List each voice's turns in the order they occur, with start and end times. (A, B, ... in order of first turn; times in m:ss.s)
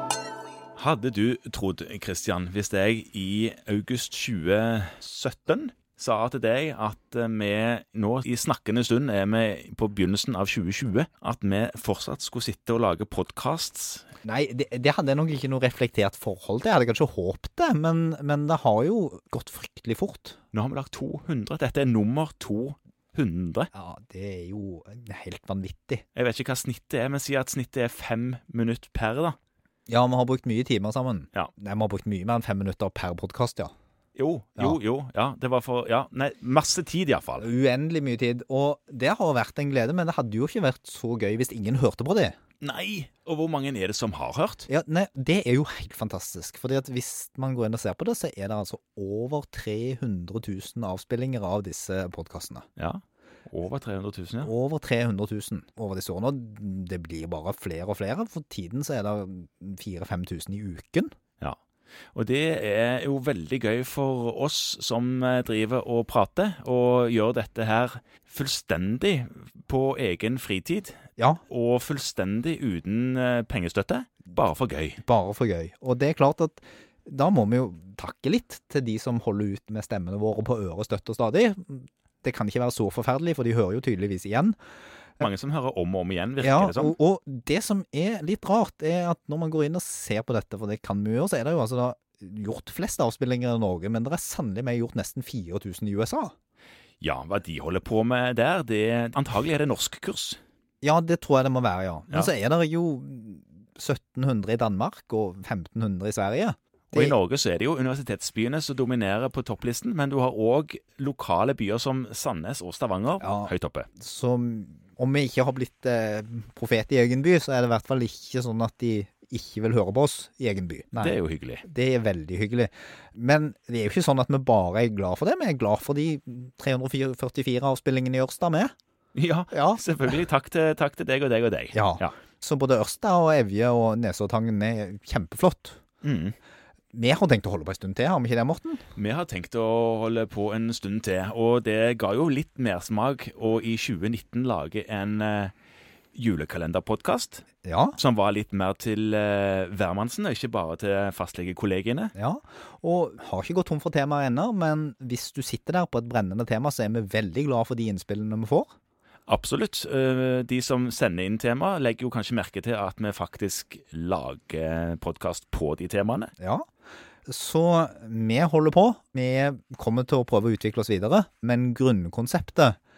0:00.8-0:14.1 A
0:14.2-0:20.4 B
0:20.5-0:23.7 A
0:23.7-0:26.0 B
0:26.1-0:29.4 A
0:29.9-0:33.7 B
0:34.2-0:37.5 A
0:37.4-0:42.4 B
0:42.6-0:44.7 A
0:44.7-0:52.6 B
0:52.8-0:54.5 A
0:54.4-1:01.1 B
1:02.1-1:15.0 A
1:15.0-1:24.6 B
1:25.2-1:27.0 A
1:26.4-1:36.3 B
1:37.0-1:40.4 A
1:40.8-1:47.2 B
1:46.9-1:53.9 A
1:53.2-2:08.7 B
2:01.0-2:01.6 A
2:09.2-2:12.2 A
2:09.5-2:09.8 B
2:11.7-2:15.8 B
2:16.0-2:16.3 A
2:16.9-2:18.8 B
2:19.0-2:25.5 A
2:26.2-2:27.5 A
2:27.6-2:28.0 B
2:28.0-2:32.1 A
2:32.2-2:38.7 B
2:39.3-2:46.3 A
2:46.4-2:46.6 B
2:47.2-2:52.8 B